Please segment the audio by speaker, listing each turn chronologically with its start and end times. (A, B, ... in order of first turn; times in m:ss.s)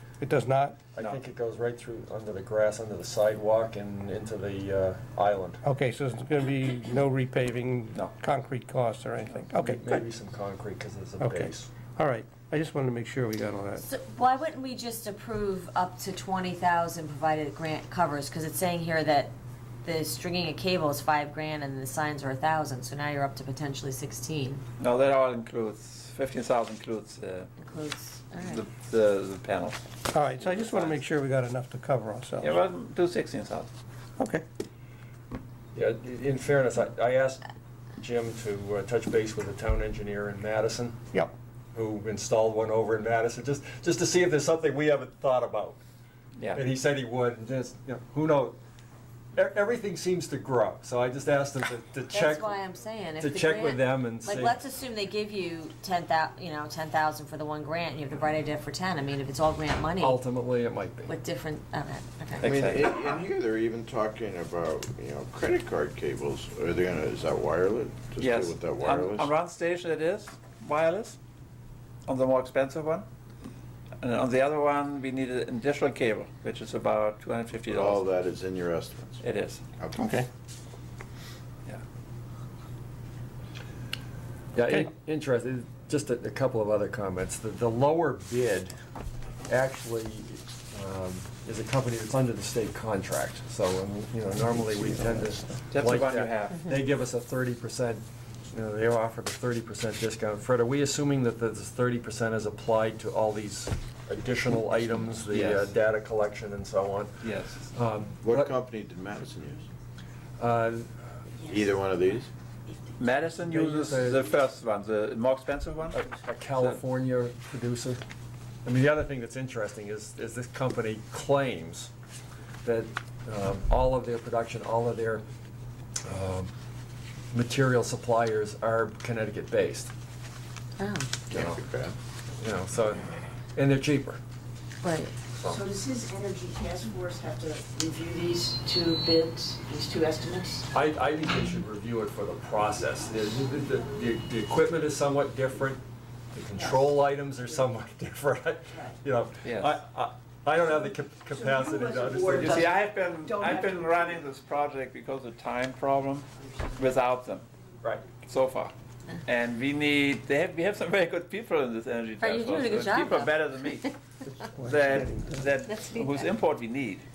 0:00.2-0:00.8 A
0:01.0-0:05.6 B
0:05.6-0:10.0 A
0:09.5-0:11.7 B
0:11.2-0:13.8 A
0:13.8-0:19.3 C
0:19.8-0:24.6 C
0:24.8-0:27.5 D
0:27.6-0:28.6 C
0:28.4-0:29.8 D
0:30.1-0:32.6 A
0:30.4-0:31.0 D
0:32.4-0:33.7 D
0:34.2-0:34.4 A
0:35.7-0:41.0 B
0:41.7-0:45.8 B
0:46.5-0:48.6 B
0:49.4-0:52.6 B
0:52.1-1:00.2 C
0:53.2-0:54.6 B
1:00.0-1:01.2 B
1:01.1-1:02.6 C
1:02.4-1:02.9 D
1:02.4-1:09.3 E
1:08.2-1:11.2 D
1:12.1-1:13.1 D
1:14.0-1:18.1 D
1:17.7-1:19.2 E
1:19.2-1:19.6 D
1:19.8-1:20.2 E
1:19.9-1:20.3 A
1:24.5-1:28.7 B
1:29.5-1:48.6 B
1:34.4-1:35.6 A
1:35.7-1:36.6 D
1:45.3-1:45.7 D
1:47.2-1:47.6 D
1:48.2-1:49.7 E
1:50.4-1:51.0 B
1:51.5-1:52.3 E
1:53.0-1:56.8 D
1:53.5-1:54.4 B
1:55.9-1:58.0 B
1:58.6-2:01.9 B
2:02.6-2:05.2 B
2:06.0-2:06.5 B
2:07.3-2:09.9 B
2:10.8-2:11.2 C
2:11.3-2:11.9 E
2:12.4-2:14.2 B
2:14.8-2:15.2 C
2:15.3-2:15.7 B
2:15.5-2:20.7 F
2:20.7-2:32.7 B
2:29.4-2:29.7 D
2:31.3-2:34.2 F
2:32.3-2:37.4 D
2:38.2-2:38.7 D
2:39.2-2:43.9 D
2:42.2-2:43.8 C
2:44.4-2:45.5 A
2:44.6-2:47.0 D
2:45.7-2:46.3 C